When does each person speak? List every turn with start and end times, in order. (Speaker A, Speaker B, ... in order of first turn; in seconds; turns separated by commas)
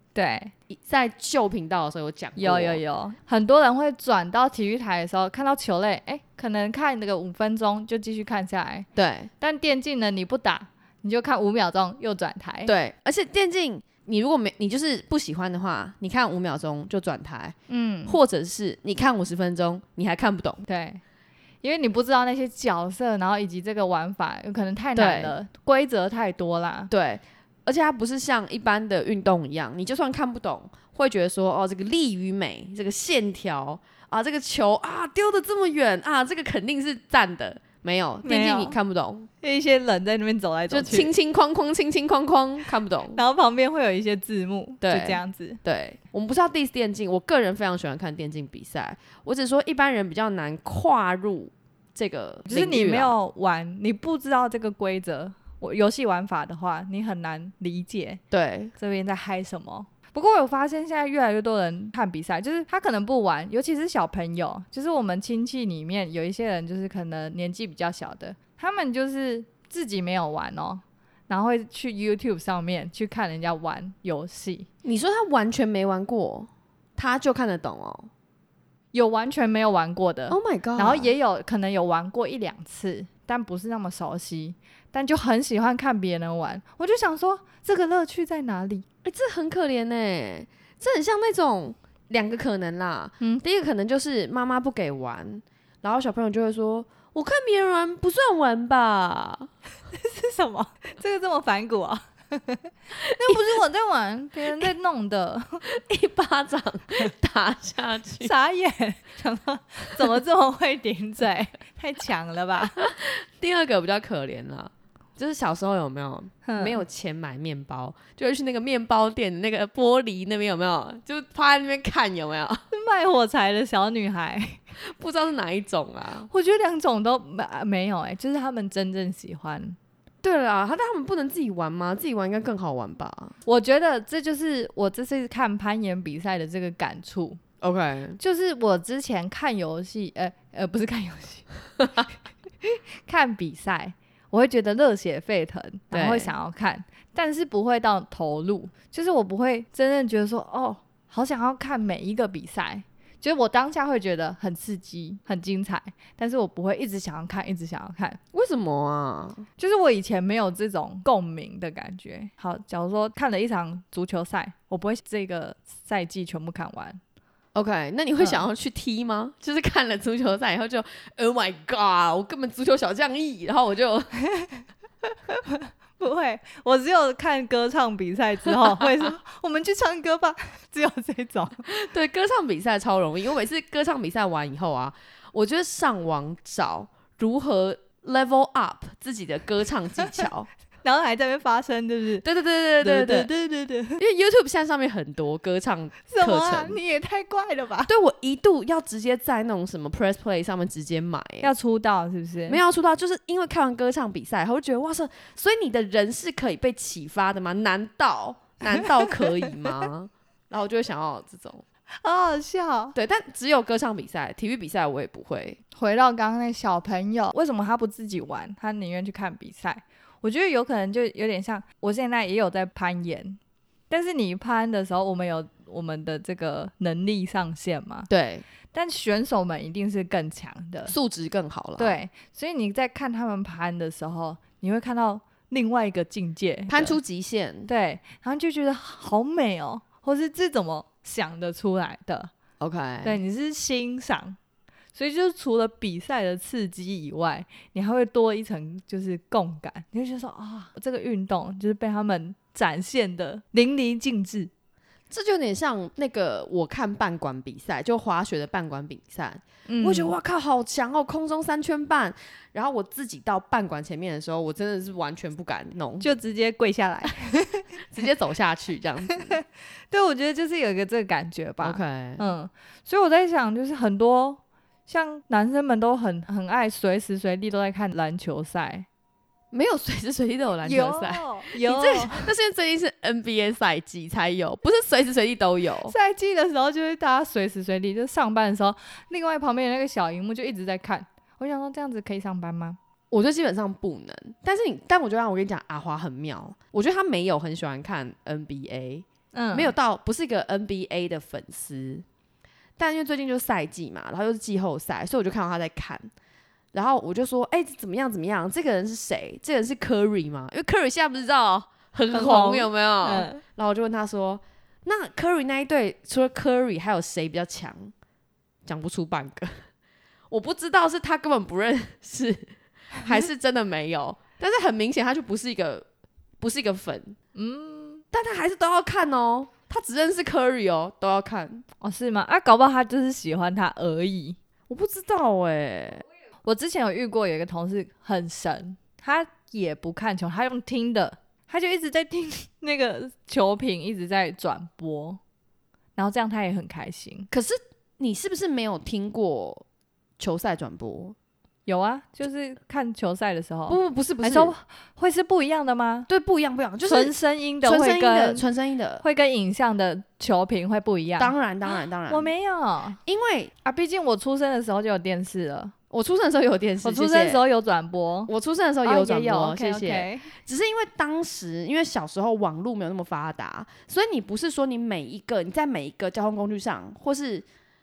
Speaker A: 0.1-0.5, Speaker B: 0.7-2.8, Speaker A: 2.4-8.9, Speaker B: 9.0-9.3, Speaker A: 9.4-12.7, Speaker B: 12.7-20.6, Speaker A: 17.7-18.2, Speaker A: 20.7-21.0, Speaker A: 21.6-26.9, Speaker B: 25.0-25.4, Speaker B: 26.9-39.3, Speaker A: 38.2-38.8, Speaker A: 39.4-41.1, Speaker B: 40.7-43.2, Speaker A: 43.1-45.6, Speaker B: 44.8-53.1, Speaker A: 52.5-58.2, Speaker B: 58.3-58.7, Speaker A: 58.8-74.7, Speaker B: 74.8-78.1, Speaker A: 78.9-88.8, Speaker B: 80.3-81.1, Speaker B: 89.0-99.5, Speaker A: 99.9-105.6, Speaker B: 103.0-103.4, Speaker B: 105.7-108.3, Speaker A: 108.2-112.9, Speaker B: 112.8-122.7, Speaker A: 116.5-116.8, Speaker A: 122.7-124.6, Speaker B: 124.8-126.3, Speaker A: 126.3-129.8, Speaker B: 130.2-133.3, Speaker A: 133.4-137.4, Speaker B: 137.6-138.2, Speaker A: 138.2-141.5, Speaker B: 141.8-142.1, Speaker A: 142.6-158.2, Speaker B: 145.9-146.3, Speaker B: 158.3-159.5, Speaker A: 159.6-167.0, Speaker B: 167.6-174.2, Speaker A: 168.2-168.5, Speaker A: 174.3-181.7, Speaker B: 181.7-190.5, Speaker A: 190.8-192.2, Speaker B: 192.2-193.3, Speaker A: 192.8-194.0, Speaker B: 194.0-196.8, Speaker A: 196.1-197.9, Speaker B: 197.9-201.5, Speaker A: 201.4-202.6, Speaker B: 202.5-211.6, Speaker A: 212.0-212.9, Speaker B: 212.9-215.6, Speaker A: 215.8-223.4, Speaker A: 223.9-228.1, Speaker B: 228.1-228.4, Speaker A: 228.7-230.9, Speaker B: 230.9-232.0, Speaker A: 231.8-237.0, Speaker B: 236.7-237.7, Speaker A: 237.7-242.3, Speaker B: 242.6-243.2, Speaker A: 243.0-244.4, Speaker A: 244.9-254.5, Speaker B: 255.1-266.1, Speaker A: 259.7-260.1, Speaker A: 266.0-267.7, Speaker B: 267.8-269.4, Speaker A: 269.3-278.9, Speaker B: 271.6-272.2, Speaker B: 279.5-285.9, Speaker A: 280.6-282.3, Speaker A: 285.9-292.8, Speaker B: 293.1-302.1, Speaker A: 299.3-299.7, Speaker B: 302.8-306.1, Speaker B: 306.7-317.9, Speaker A: 312.1-313.4, Speaker B: 318.7-319.6, Speaker B: 320.3-325.9, Speaker B: 326.4-327.2, Speaker A: 327.4-328.0, Speaker B: 328.1-331.6, Speaker A: 331.8-334.4, Speaker B: 334.7-336.1, Speaker A: 336.4-345.2, Speaker A: 346.0-347.3, Speaker B: 347.3-349.6, Speaker B: 350.2-351.1, Speaker A: 351.7-356.1, Speaker B: 353.7-354.5, Speaker B: 356.1-359.0, Speaker A: 356.9-358.4, Speaker A: 359.0-361.3, Speaker B: 361.2-362.3, Speaker A: 362.1-363.0, Speaker B: 363.1-363.5, Speaker A: 363.6-365.7, Speaker B: 365.9-367.4, Speaker A: 366.8-368.3, Speaker B: 368.3-377.4, Speaker A: 368.8-370.3